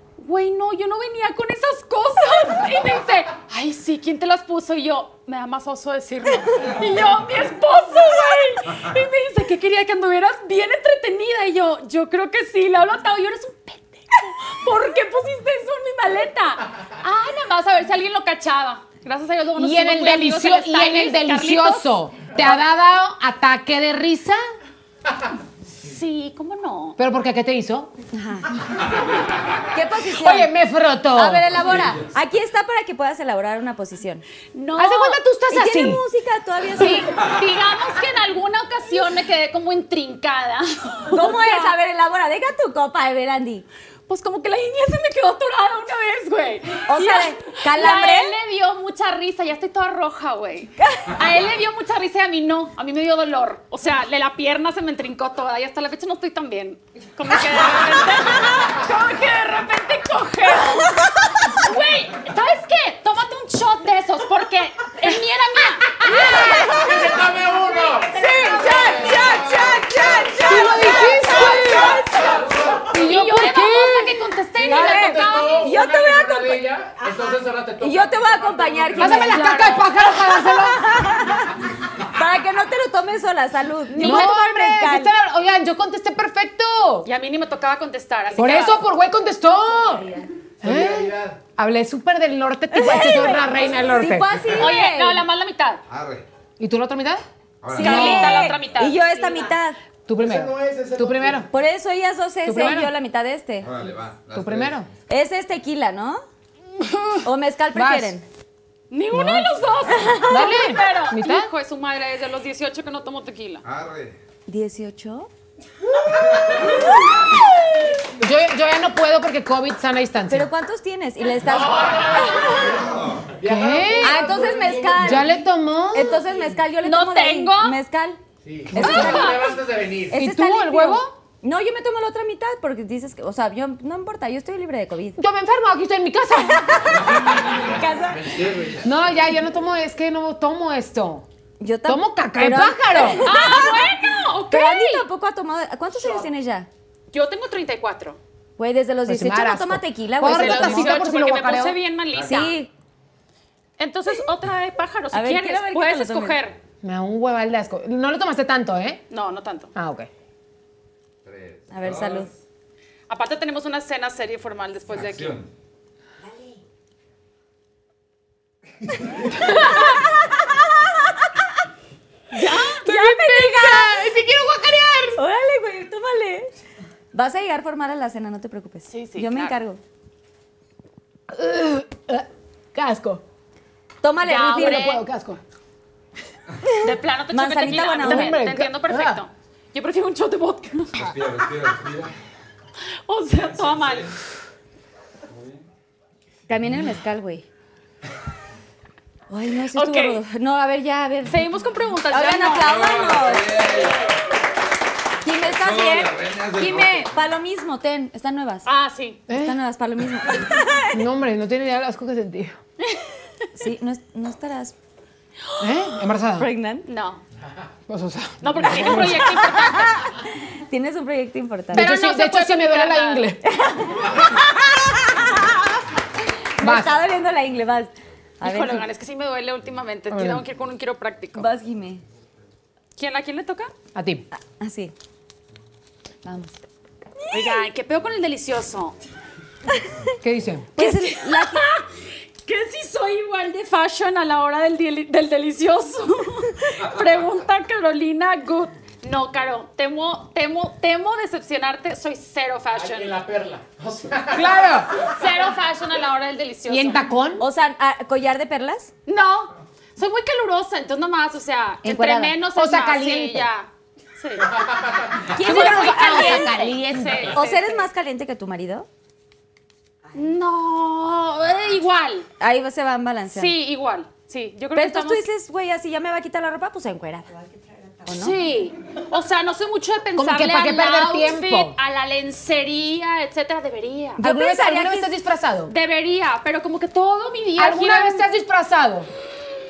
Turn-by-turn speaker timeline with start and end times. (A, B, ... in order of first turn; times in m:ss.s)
0:00.2-0:22.6 A
0:19.6-0:24.4 B
0:25.8-0:27.0 A
0:27.0-0:27.9 B
0:28.1-0:28.6 C
0:29.7-0:30.5 C
0:30.1-0:31.5 B
0:31.1-0:34.2 C
0:31.7-0:32.0 D
0:34.5-0:35.2 A
0:34.8-0:36.0 B
0:35.5-0:37.1 C
0:36.8-0:41.7 A
0:41.1-0:43.6 C
0:44.1-1:06.9 A
0:46.9-0:48.4 C
0:50.8-0:51.2 C
1:06.2-1:06.9 C
1:06.4-1:12.9 E
1:08.1-1:12.5 C
1:08.2-1:09.5 A
1:10.4-1:12.0 B
1:10.8-1:12.3 A
1:12.9-1:15.3 B
1:12.9-1:15.8 A
1:14.6-1:19.2 E
1:14.6-1:16.7 C
1:17.8-1:25.1 C
1:19.0-1:20.9 B
1:19.0-1:19.9 A
1:23.9-1:24.4 A
1:24.0-1:27.1 B
1:27.0-1:28.8 A
1:28.3-1:30.1 B
1:30.6-1:31.4 E
1:30.6-1:34.4 B
1:32.7-1:35.2 C
1:34.5-1:35.8 A
1:35.9-1:36.2 D
1:36.6-1:37.2 B
1:37.6-1:38.0 D
1:37.7-1:39.8 C
1:37.7-1:38.5 B
1:37.8-1:39.0 A
1:40.1-1:41.5 B
1:40.2-1:41.5 E
1:41.5-1:43.7 C
1:42.4-1:42.9 B
1:43.6-1:44.8 D
1:44.3-1:44.9 B
1:45.1-1:46.2 C
1:47.2-1:48.2 C
1:47.7-1:48.1 B
1:48.9-1:53.6 A
1:49.1-1:49.5 B
1:49.9-1:50.6 C
1:50.3-1:51.5 B
1:53.6-1:54.2 D
1:54.5-1:55.3 C
1:56.2-1:56.6 D
1:58.2-2:00.5 B
2:00.3-2:02.8 C
2:01.4-2:05.4 E
2:02.8-2:03.3 D
2:03.4-2:06.2 B
2:04.0-2:05.3 C
2:05.9-2:08.2 C
2:06.8-2:07.8 A
2:08.4-2:10.2 E
2:08.7-2:09.3 B
2:08.7-2:09.5 C
2:08.8-2:09.5 A
2:10.1-2:15.2 C
2:10.1-2:11.1 B
2:15.2-2:17.2 B
2:16.6-2:18.4 C
2:16.9-2:18.8 E
2:18.2-2:18.8 D
2:18.8-2:21.2 B
2:21.6-2:23.9 C
2:21.8-2:23.3 B
2:23.2-2:25.0 A
2:24.5-2:26.7 C
2:27.1-2:28.2 A
2:28.6-2:31.0 C
2:29.0-2:31.8 B
2:30.2-2:32.5 A
2:32.1-2:32.4 D
2:32.2-2:32.7 C
2:33.8-2:36.6 A
2:35.1-2:36.4 C
2:36.8-2:39.0 B
2:39.1-2:39.7 A
2:39.7-2:40.1 B
2:41.2-2:42.3 D
2:41.7-2:42.3 C
2:43.1-2:45.4 A
2:44.9-2:45.5 D
2:49.8-2:51.4 C
2:52.3-2:52.8 A
2:52.8-2:54.2 C
2:52.8-2:55.2 B
2:55.2-2:56.5 C
2:57.1-2:59.8 C
2:58.9-2:59.6 A
3:01.3-3:03.2 B
3:04.0-3:04.9 C
3:04.2-3:05.0 A
3:04.4-3:05.4 B
3:06.6-3:08.4 C
3:06.8-3:11.0 A
3:07.9-3:09.2 B
3:10.9-3:12.1 D
3:13.1-3:14.1 A
3:13.5-3:14.1 D
3:15.3-3:15.6 D
3:16.5-3:17.4 C
3:19.3-3:21.5 C
3:19.7-3:20.2 A
3:21.2-3:22.9 A
3:22.1-3:23.6 C
3:22.6-3:24.1 D
3:25.2-3:28.7 C
3:25.4-3:27.1 D
3:28.6-3:29.2 A
3:29.3-3:29.6 B
3:29.3-3:31.0 C
3:30.9-3:32.6 B
3:32.8-3:33.1 A
3:33.6-3:34.7 C
3:35.6-3:36.5 B
3:36.4-3:36.8 C
3:36.8-3:37.2 A
3:37.9-3:39.4 B
3:38.4-3:40.1 A
3:39.2-3:41.9 C
3:41.7-3:43.2 A
3:41.7-3:43.4 B
3:43.4-3:45.8 C
3:46.6-3:48.8 C
3:46.6-3:47.0 B
3:48.4-3:51.5 A
3:50.1-3:50.4 B
3:51.3-3:52.0 C
3:53.0-3:53.7 A
3:53.9-3:54.2 B
3:54.4-3:54.9 C
3:56.2-3:56.6 C
3:57.2-3:57.6 C
3:57.3-3:59.0 A
3:59.7-4:00.1 C
4:00.2-4:00.7 B
4:00.8-4:01.6 C
4:00.8-4:13.2 A
4:12.7-4:15.0 E
4:14.3-4:14.9 B
4:14.9-4:17.0 A
4:16.7-4:17.4 B
4:17.4-4:18.9 C
4:19.1-4:24.6 A
4:21.8-4:22.4 C
4:22.5-4:23.5 B
4:24.5-4:25.3 E
4:25.3-4:26.6 C
4:25.3-4:27.8 A
4:25.4-4:27.3 B
4:27.3-4:28.9 C
4:30.1-4:32.3 A
4:32.4-4:33.6 C
4:33.3-4:35.3 A
4:34.7-4:37.4 C
4:38.0-4:38.4 C
4:38.1-4:44.2 A
4:40.2-4:41.8 B
4:44.2-4:45.1 C
4:44.2-4:45.7 B
4:45.7-4:48.3 A
4:47.6-4:49.1 B